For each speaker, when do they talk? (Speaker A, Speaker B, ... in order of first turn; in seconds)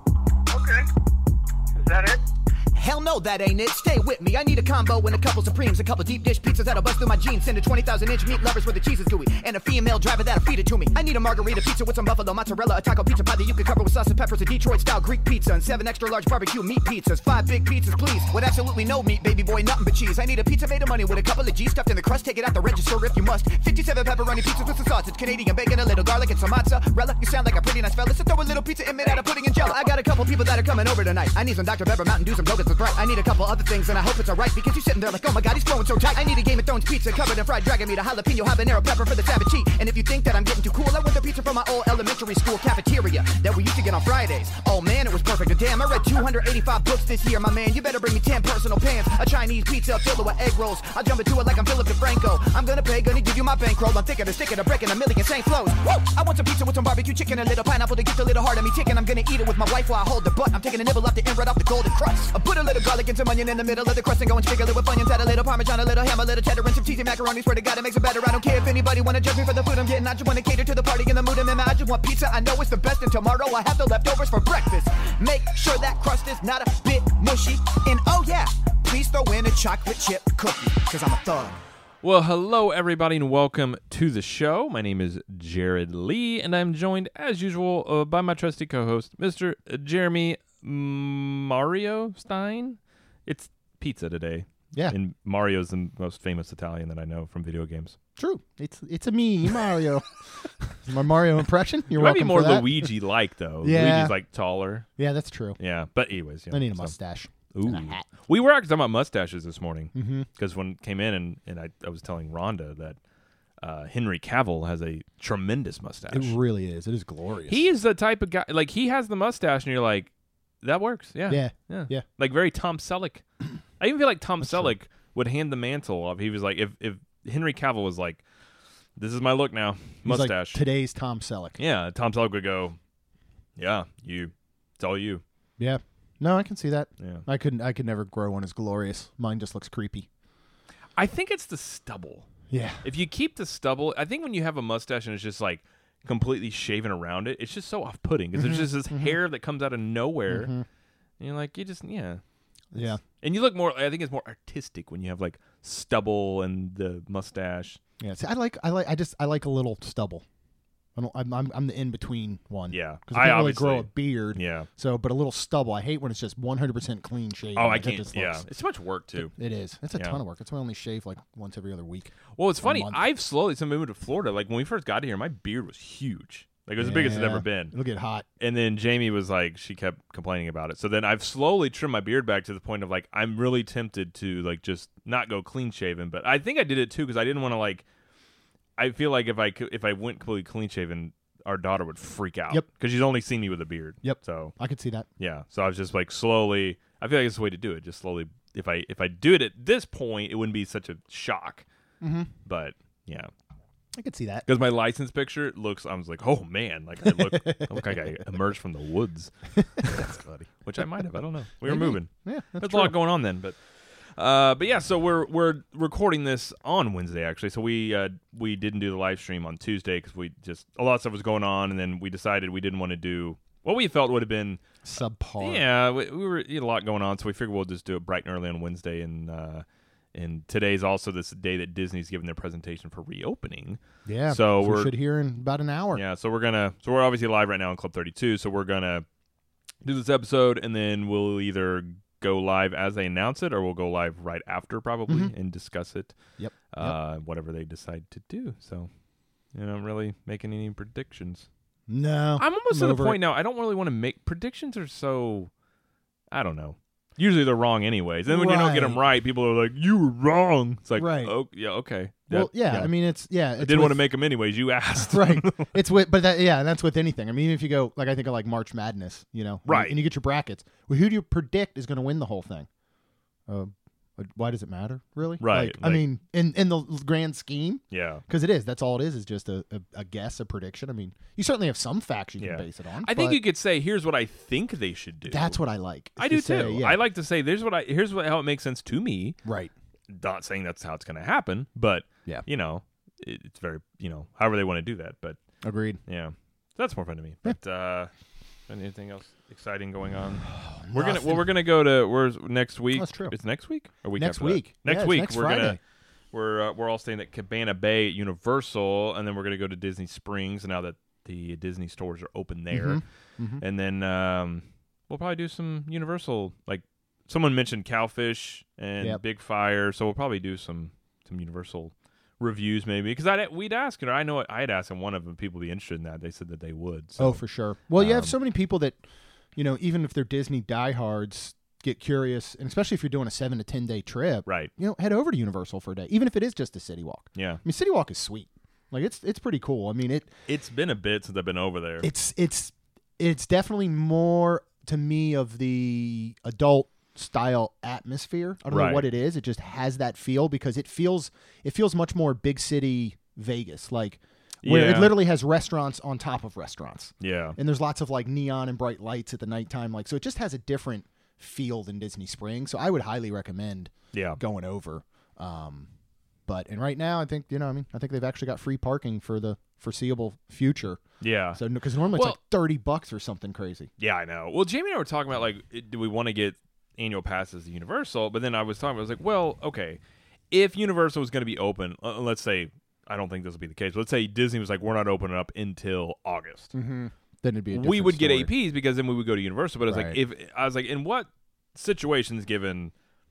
Speaker A: 0.5-0.8, 1.8-81.6
Speaker B: 82.0-98.0, 101.9-104.8, 105.6-106.9, 107.5-113.0, 113.6-116.3, 117.5-120.1, 120.6-123.2, 123.8-128.2, 129.0-130.6, 131.6-132.8, 133.6-135.2, 137.0-137.2, 140.9-142.3, 142.8-150.5, 151.2-152.2, 152.8-157.8, 162.7-164.7, 167.5-169.3, 172.3-177.7, 178.4-187.8, 188.8-194.6, 195.2-201.6, 202.4-203.3, 204.4-213.6, 214.2-224.6, 225.4-234.9, 235.9-239.0, 239.8-246.2, 246.7-248.9, 249.5-251.5, 252.4-255.5, 256.3-262.9, 263.6-265.7, 269.7-269.9, 275.4-276.0, 277.9-278.2, 282.4-285.6, 286.2-289.4, 290.1-295.4, 296.1-298.1, 298.7-305.8, 306.3-313.0, 313.6-327.4, 327.9-328.3, 337.4-337.6, 340.5-342.1, 348.7-349.0, 354.6-355.1, 357.2-357.6, 364.1-364.4, 371.2-371.6, 372.1-372.4, 374.0-380.0, 380.5-386.7, 387.7-392.9
Speaker C: 98.2-102.9, 103.6-104.1, 105.0-105.6, 106.5-108.1, 109.9-110.3, 116.1-117.7, 121.3-122.0, 124.4-124.7, 130.0-131.6, 135.6-140.1, 142.5-142.8, 148.3-149.2, 150.3-150.6, 152.7-153.0, 158.0-160.2, 160.9-168.4, 169.2-173.0, 176.8-178.3, 194.0-195.1, 202.0-202.3, 203.9-204.5, 207.0-208.2, 209.6-210.3, 211.6-212.9, 224.8-225.6, 234.1-236.0, 245.1-245.3, 246.4-246.9, 251.9-253.2, 258.3-259.0, 260.9-261.3, 262.3-264.0, 265.0-272.7, 273.5-283.4, 285.3-287.0, 289.4-289.7, 295.6-296.0, 300.5-301.5, 302.9-303.4, 304.1-305.8, 312.7-313.6, 327.2-329.0, 329.5-340.3, 342.0-365.9, 366.5-371.0, 371.6-373.9, 386.7-388.5, 389.9-390.2